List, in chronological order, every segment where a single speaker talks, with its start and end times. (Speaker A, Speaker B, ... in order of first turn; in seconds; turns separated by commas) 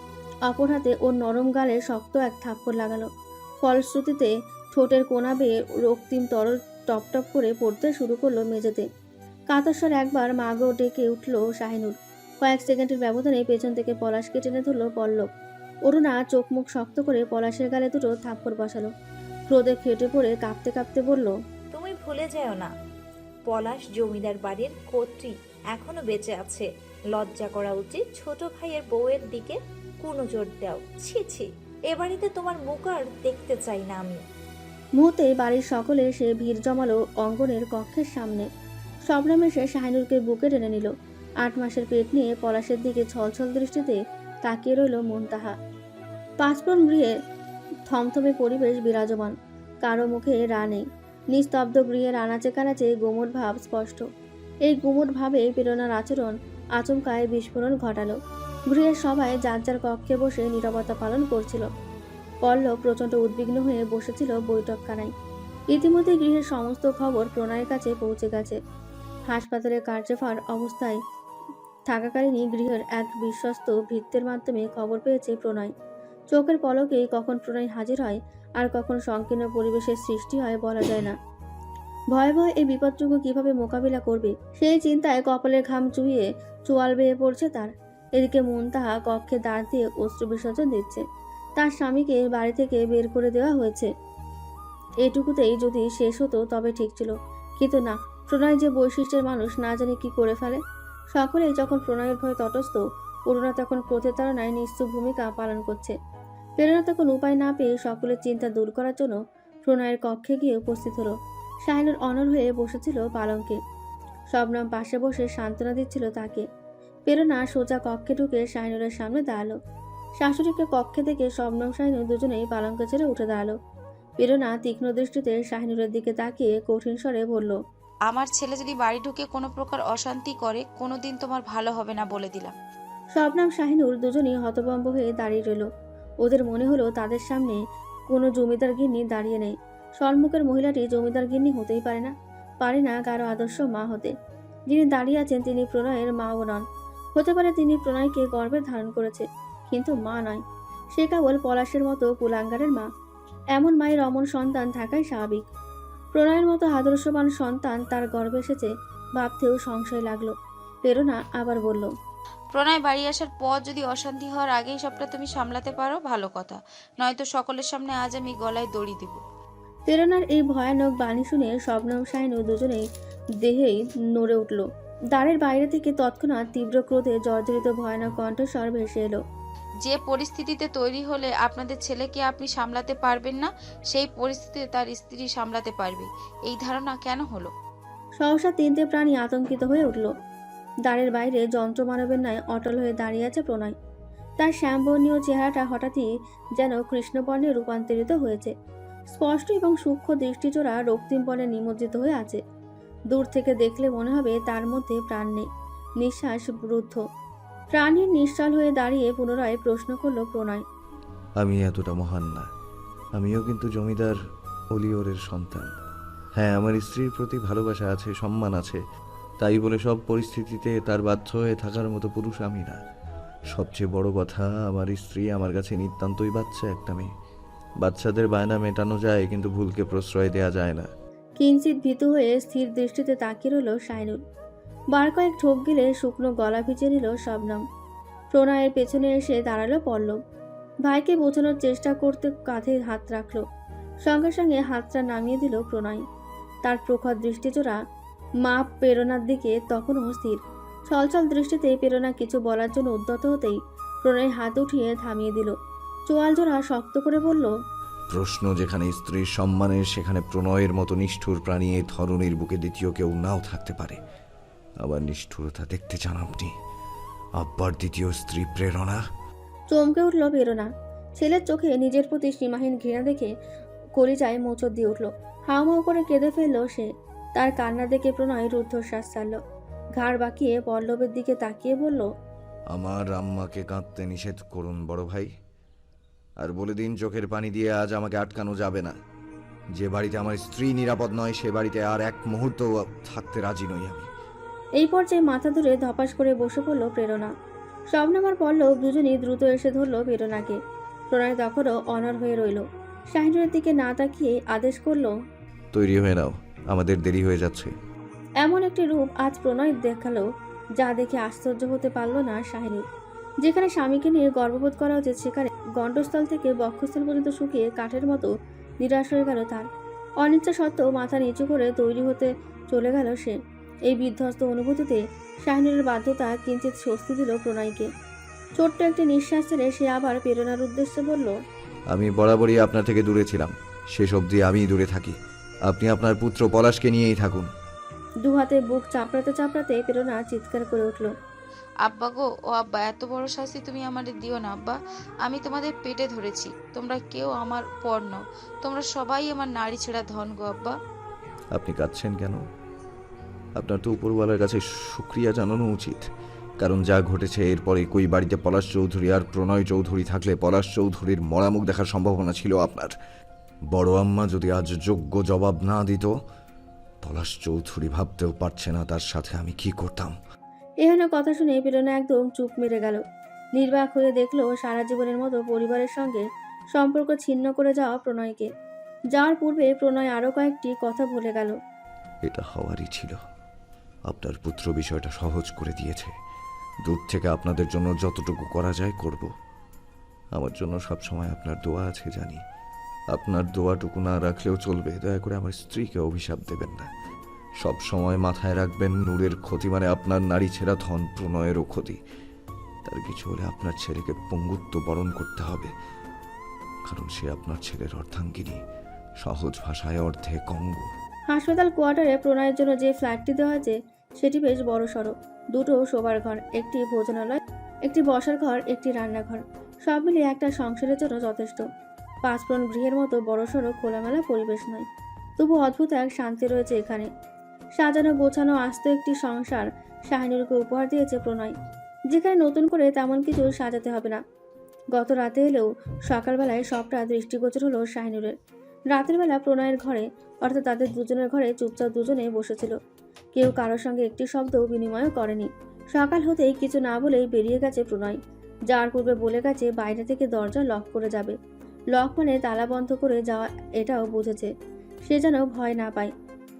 Speaker A: 0.5-3.1, Speaker A: 3.6-8.8, Speaker A: 9.5-15.3, Speaker A: 15.9-18.9, Speaker A: 19.5-21.3, Speaker B: 21.7-22.7, Speaker B: 23.5-34.2, Speaker A: 35.0-38.5, Speaker A: 39.1-40.9, Speaker A: 41.4-45.5, Speaker A: 46.4-47.1, Speaker A: 47.9-54.0, Speaker A: 54.6-58.2, Speaker A: 58.7-61.7, Speaker A: 62.4-65.1, Speaker A: 65.7-68.6, Speaker A: 69.3-71.0, Speaker A: 71.9-75.7, Speaker A: 76.3-81.1, Speaker A: 82.1-91.0, Speaker A: 91.6-93.9, Speaker A: 95.0-100.6, Speaker A: 101.1-105.9, Speaker A: 106.6-111.1, Speaker A: 111.7-113.6, Speaker A: 114.3-116.4, Speaker A: 117.1-119.5, Speaker A: 120.2-123.5, Speaker A: 124.2-127.6, Speaker C: 128.1-132.6, Speaker A: 133.2-135.7, Speaker A: 136.2-137.6, Speaker A: 138.1-144.1, Speaker A: 144.7-146.6, Speaker A: 147.2-150.4, Speaker A: 150.9-152.9, Speaker A: 153.5-155.4, Speaker A: 156.2-160.3, Speaker A: 160.8-161.9, Speaker C: 162.5-169.2, Speaker A: 169.8-172.8, Speaker A: 173.4-179.2, Speaker C: 179.8-187.5, Speaker A: 188.2-190.1, Speaker A: 190.9-193.7, Speaker A: 194.4-198.5, Speaker A: 199.1-202.4, Speaker A: 203.1-205.5, Speaker A: 206.0-207.0, Speaker A: 207.7-210.6, Speaker D: 211.4-212.5, Speaker D: 213.2-214.2, Speaker D: 214.7-215.7, Speaker D: 216.4-218.8, Speaker D: 219.4-222.8, Speaker D: 223.5-227.1, Speaker D: 227.8-230.9, Speaker A: 231.4-234.2, Speaker A: 234.9-237.6, Speaker A: 238.3-240.2, Speaker A: 240.9-243.4, Speaker A: 244.1-246.0, Speaker A: 246.7-247.8, Speaker A: 248.4-250.4, Speaker A: 250.9-255.5, Speaker A: 256.1-257.5, Speaker D: 258.1-264.0, Speaker D: 264.8-266.5, Speaker D: 267.4-269.0, Speaker A: 269.7-273.3, Speaker A: 274.0-279.4, Speaker A: 280.0-282.1, Speaker D: 282.7-285.3, Speaker D: 286.4-289.0, Speaker D: 289.8-294.1, Speaker A: 294.8-297.3, Speaker A: 297.9-300.6, Speaker A: 301.1-305.1, Speaker D: 305.7-307.7, Speaker A: 308.4-310.2, Speaker A: 310.8-312.8, Speaker A: 313.4-319.6, Speaker A: 320.2-323.4, Speaker A: 323.9-327.9, Speaker A: 328.6-331.3, Speaker D: 331.9-335.1, Speaker D: 335.7-337.5, Speaker A: 338.2-341.1, Speaker C: 341.8-350.8, Speaker D: 351.5-352.4, Speaker D: 353.6-356.1, Speaker D: 356.6-362.9, Speaker D: 363.7-366.1, Speaker D: 367.0-370.1, Speaker A: 370.8-373.0, Speaker A: 373.6-378.5, Speaker A: 379.1-381.5, Speaker D: 382.2-383.2, Speaker D: 384.1-386.1, Speaker D: 386.8-389.3, Speaker D: 390.3-392.4, Speaker D: 393.1-396.9, Speaker D: 397.6-402.0, Speaker D: 402.9-405.7, Speaker D: 406.9-408.6, Speaker D: 409.2-410.9, Speaker A: 411.3-421.6, Speaker A: 422.2-424.8, Speaker A: 425.4-427.1, Speaker A: 427.8-431.5, Speaker A: 432.1-434.2, Speaker A: 434.9-438.3, Speaker A: 438.9-442.7, Speaker A: 443.3-448.2, Speaker A: 448.7-451.4, Speaker A: 451.9-454.5, Speaker A: 455.1-456.1